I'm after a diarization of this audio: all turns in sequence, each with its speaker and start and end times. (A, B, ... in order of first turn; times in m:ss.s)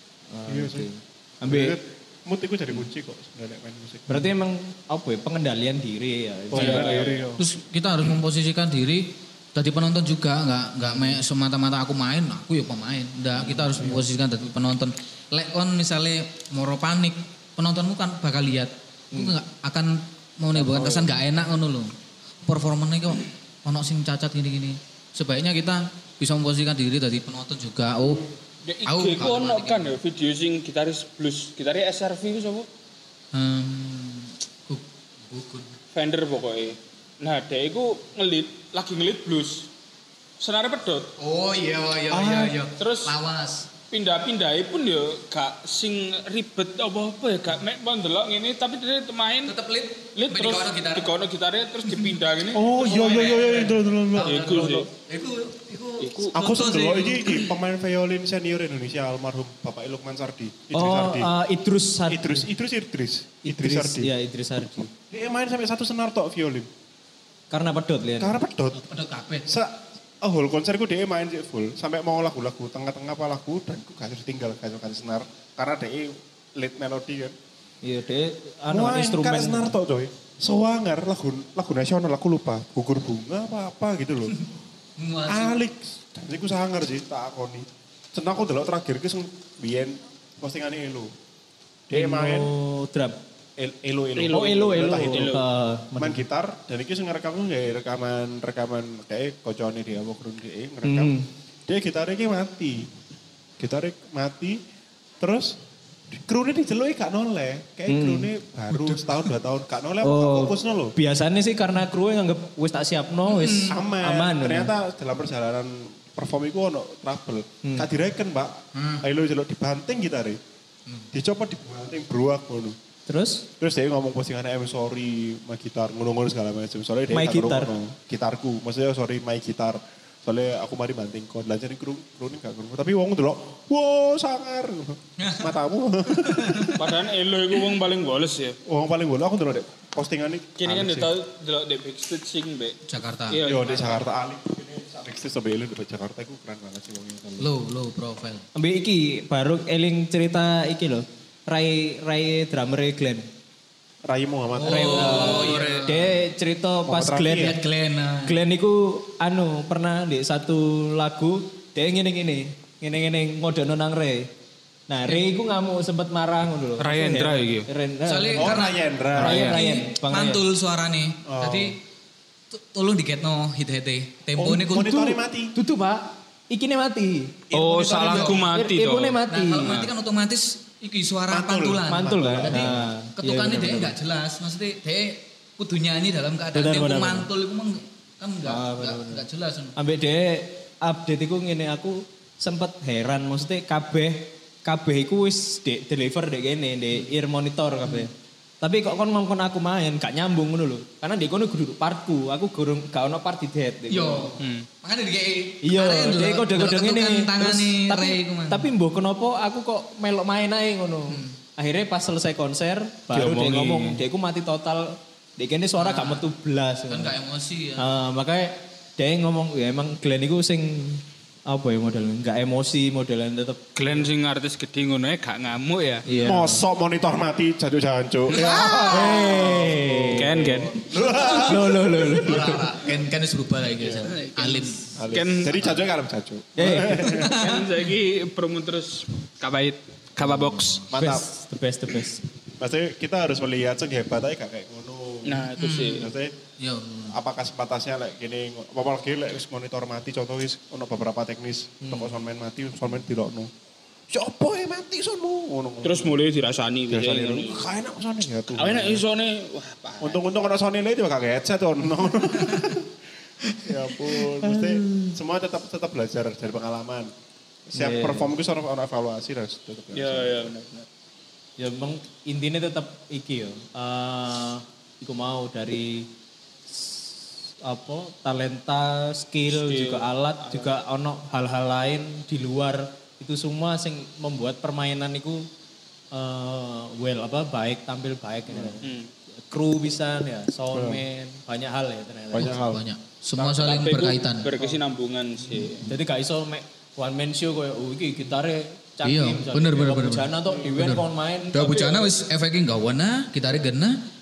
0:00.3-0:01.8 A
0:00.5-0:00.9 B
0:01.5-0:04.3 B
0:04.1-0:07.1 A
0:06.5-0:07.4 B
0:06.5-0:07.2 C
0:06.6-0:21.9 D
0:10.8-0:11.2 A
0:13.4-0:13.7 A
0:19.1-0:19.4 A
0:22.5-0:28.3 D
0:28.6-0:32.7 C
0:28.8-0:30.0 D
0:33.3-0:35.7 D
0:35.9-0:39.7 C
0:40.4-0:41.1 C
0:41.2-0:43.7 D
0:42.1-0:42.6 B
0:42.8-0:43.1 C
0:43.9-0:49.6 C
0:49.5-0:51.1 D
0:50.2-0:52.7 C
0:51.9-0:52.2 D
0:52.5-0:54.4 B
0:52.7-0:57.5 D
0:54.2-0:54.9 C
0:56.0-0:56.3 C
0:56.3-1:01.3 B
1:00.7-1:02.5 A
1:02.1-1:04.1 B
1:03.4-1:04.9 A
1:05.1-1:06.7 B
1:07.5-1:08.4 A
1:08.2-1:08.8 B
1:08.8-1:09.5 D
1:09.5-1:17.3 B
1:17.8-1:19.8 A
1:18.7-1:24.3 B
1:24.3-1:25.6 D
1:25.3-1:31.1 B
1:31.9-1:32.5 B
1:31.9-1:33.2 A
1:33.6-1:35.4 B
1:34.2-1:35.4 C
1:34.3-1:36.3 A
1:36.0-1:41.2 B
1:40.8-1:41.3 A
1:41.7-1:42.9 B
1:43.6-1:44.6 B
1:45.2-1:45.6 B
1:46.1-1:51.0 B
1:47.9-1:48.3 A
1:50.0-1:54.7 A
1:53.3-1:53.8 D
1:53.7-2:00.4 B
1:58.8-1:59.0 D
2:01.1-2:02.8 B
2:03.1-2:03.5 A
2:03.6-2:16.8 B
2:07.1-2:07.7 A
2:16.3-2:16.8 D
2:16.8-2:18.6 C
2:18.7-2:21.1 B
2:20.6-2:22.8 C
2:22.9-2:23.4 D
2:23.3-2:24.0 C
2:23.5-2:27.5 B
2:27.4-2:28.4 D
2:28.6-2:33.3 A
2:34.1-2:35.5 B
2:34.6-2:36.2 D
2:34.7-2:37.6 A
2:36.9-2:37.6 B
2:37.4-2:38.4 D
2:38.2-2:44.3 A
2:44.9-2:48.6 A
2:46.8-2:47.7 C
2:48.1-2:51.8 D
2:48.4-2:49.4 B
2:49.2-2:50.4 A
2:49.2-2:49.6 C
2:51.3-2:51.8 B
2:52.5-2:54.9 D
2:54.4-2:55.6 B
2:54.8-2:57.4 A
2:57.5-2:58.4 B
2:57.5-2:59.9 C
2:58.0-2:58.4 D
2:58.4-2:59.8 A
2:59.3-3:09.7 D
3:01.3-3:02.8 B
3:01.9-3:03.9 A
3:06.5-3:07.3 A
3:08.4-3:24.4 A
3:23.9-3:28.7 D
3:24.4-3:24.7 C
3:25.6-3:37.2 A
3:31.1-3:31.4 D
3:33.1-3:34.0 C
3:35.8-3:36.3 D
3:36.9-3:38.0 D
3:37.8-3:43.6 A
3:43.8-3:46.1 C
3:46.0-3:46.6 A
3:46.1-3:46.4 D
3:46.2-3:51.9 B
3:48.4-3:48.9 D
3:48.6-3:49.1 C
3:48.8-3:50.5 A
3:50.1-3:50.8 C
3:50.9-3:55.0 D
3:51.4-3:52.6 A
3:53.8-3:55.7 C
3:55.0-3:57.3 B
3:56.6-3:57.3 A
3:57.1-3:57.6 D
3:57.4-4:00.8 C
4:00.5-4:00.8 D
4:00.9-4:02.2 A
4:00.9-4:01.3 B
4:02.6-4:06.4 B
4:05.2-4:06.1 C
4:05.6-4:06.1 D
4:06.6-4:07.2 D
4:07.1-4:13.5 B
4:11.8-4:12.1 A
4:14.1-4:16.2 B
4:15.8-4:17.7 C
4:16.9-4:19.0 B
4:18.5-4:20.3 C
4:20.0-4:22.9 B
4:23.6-4:27.1 B
4:24.5-4:25.1 A
4:27.7-4:30.5 B
4:27.8-4:28.4 A
4:29.9-4:30.9 C
4:31.6-4:36.1 A
4:36.7-4:45.4 A
4:39.5-4:40.7 C
4:46.1-4:48.9 A
4:48.5-4:48.8 B
4:48.8-4:49.1 C
4:49.5-4:52.6 A
4:50.7-4:51.0 B
4:52.3-4:52.8 B
4:52.4-4:54.5 D
4:53.4-4:55.9 C
4:55.9-5:01.6 A
4:59.0-5:04.0 D
5:01.6-5:02.2 C